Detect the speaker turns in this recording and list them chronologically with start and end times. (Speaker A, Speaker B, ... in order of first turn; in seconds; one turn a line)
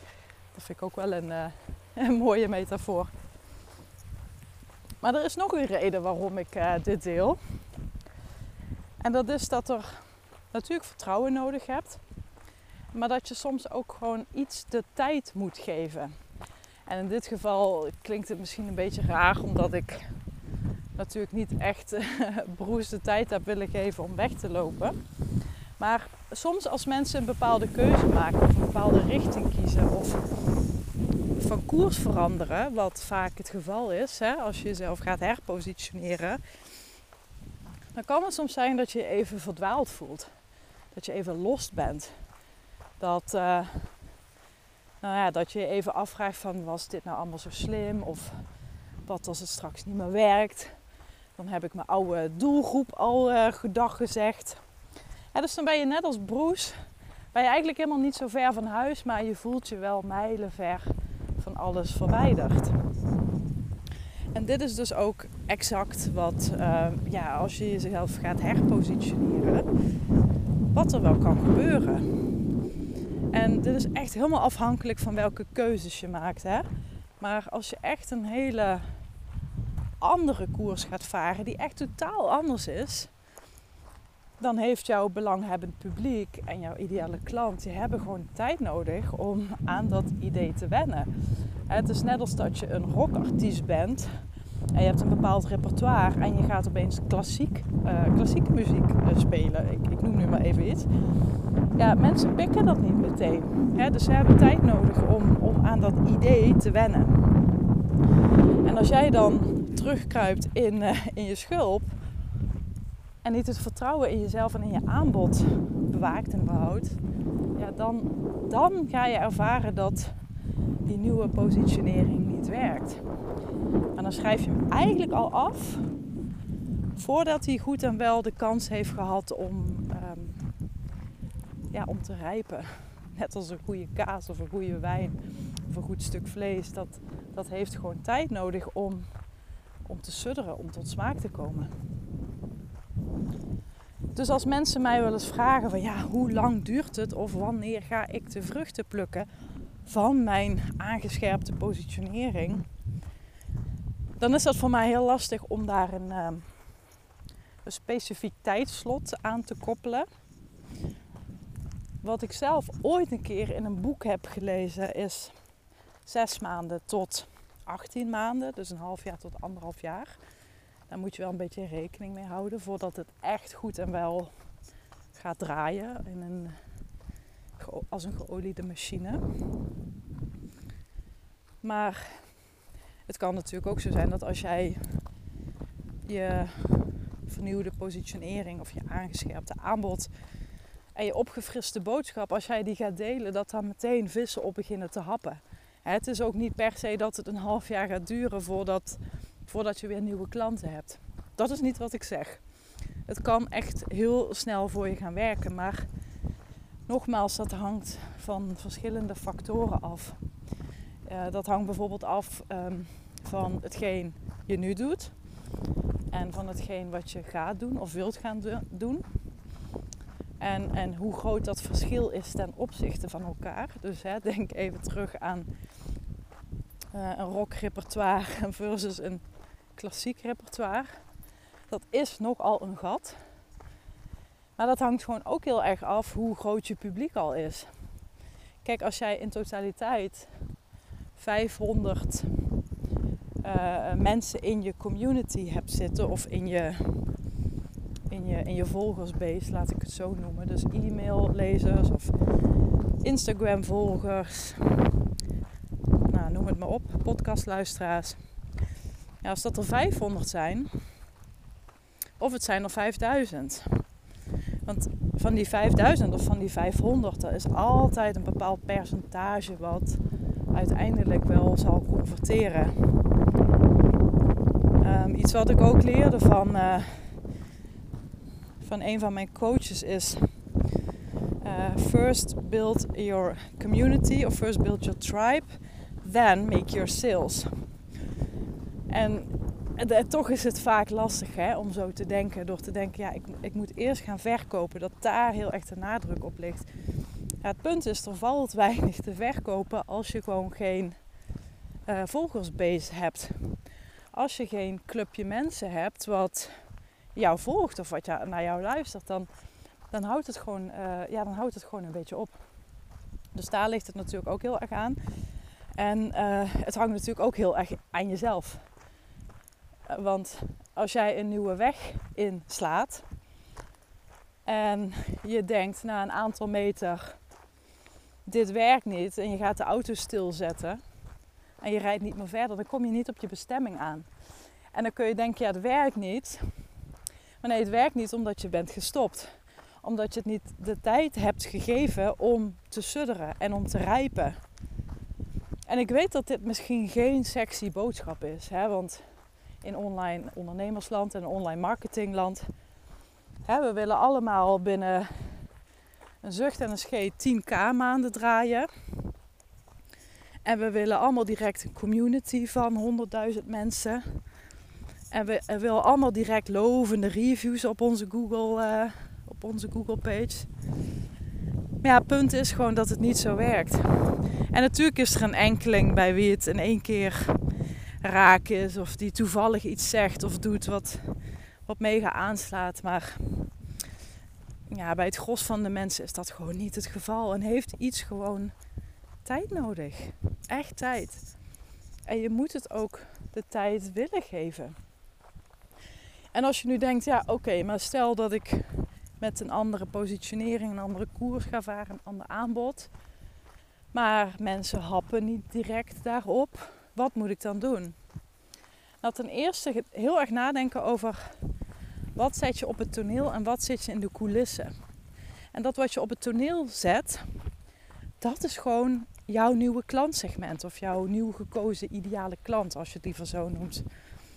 Speaker A: 0.5-3.1
Speaker A: 5.0-7.4
Speaker A: 9.0-12.0
Speaker A: 12.9-16.1
Speaker A: 16.9-20.1
Speaker A: 21.0-25.0
Speaker A: 25.8-30.3
Speaker A: 31.4-36.4
Speaker A: 38.0-40.3
Speaker A: 40.9-42.1
Speaker A: 43.0-44.0
Speaker A: 45.0-48.5
Speaker A: 49.1-50.8
Speaker A: 51.4-54.6
Speaker A: 55.3-56.8
Speaker A: 57.3-62.8
Speaker A: 64.3-69.7
Speaker A: 70.7-72.2
Speaker A: 73.3-76.7
Speaker A: 77.2-78.9
Speaker A: 80.0-83.1
Speaker A: 84.4-91.1
Speaker A: 91.7-94.1
Speaker A: 94.7-100.9
Speaker A: 101.8-107.2
Speaker A: 108.6-112.0
Speaker A: 113.2-117.0
Speaker A: 117.6-120.2
Speaker A: 120.9-123.0
Speaker A: 124.0-125.9
Speaker A: 127.0-130.4
Speaker A: 131.7-139.1
Speaker A: 139.8-141.7
Speaker A: 144.2-149.3
Speaker A: 149.8-152.7
Speaker A: 154.2-156.5
Speaker A: 157.7-160.1
Speaker A: 162.0-165.3
Speaker A: 166.1-170.2
Speaker A: 170.9-174.3
Speaker A: 175.2-176.6
Speaker A: 177.6-179.2
Speaker A: 181.6-182.4
Speaker A: 183.1-185.0
Speaker A: 186.1-190.1
Speaker A: 190.9-202.4
Speaker A: 203.1-205.9
Speaker A: 206.9-210.2
Speaker A: 211.1-215.2
Speaker A: 216.1-219.1
Speaker A: 220.4-225.5
Speaker A: 226.9-229.2
Speaker A: 229.8-231.0
Speaker A: 231.7-233.2
Speaker A: 234.6-237.7
Speaker A: 238.6-240.3
Speaker A: 241.2-242.4
Speaker A: 243.4-247.2
Speaker A: 248.1-252.1
Speaker A: 253.0-254.9
Speaker A: 256.1-258.2
Speaker A: 259.2-260.7
Speaker A: 262.2-263.8
Speaker A: 264.7-270.0
Speaker A: 270.5-272.8
Speaker A: 274.8-277.2
Speaker A: 278.6-280.4
Speaker A: 281.4-287.6
Speaker A: 288.9-296.7
Speaker A: 297.4-301.0
Speaker A: 301.9-306.6
Speaker A: 307.1-309.3
Speaker A: 309.9-312.4
Speaker A: 313.3-318.7
Speaker A: 319.9-323.1
Speaker A: 324.5-327.2
Speaker A: 328.3-330.8
Speaker A: 331.6-334.1
Speaker A: 334.7-336.6
Speaker A: 337.4-344.4
Speaker A: 345.7-349.1
Speaker A: 349.6-352.5
Speaker A: 353.4-355.5
Speaker A: 356.2-358.7
Speaker A: 360.4-364.2
Speaker A: 365.1-370.5
Speaker A: 371.8-377.4
Speaker A: 378.0-381.1
Speaker A: 381.7-383.5
Speaker A: 384.7-388.5
Speaker A: 389.2-391.3
Speaker A: 392.1-394.8
Speaker A: 396.3-402.9
Speaker A: 403.9-408.0
Speaker A: 409.0-411.5
Speaker A: 412.2-414.7
Speaker A: 415.5-417.4
Speaker A: 418.2-423.9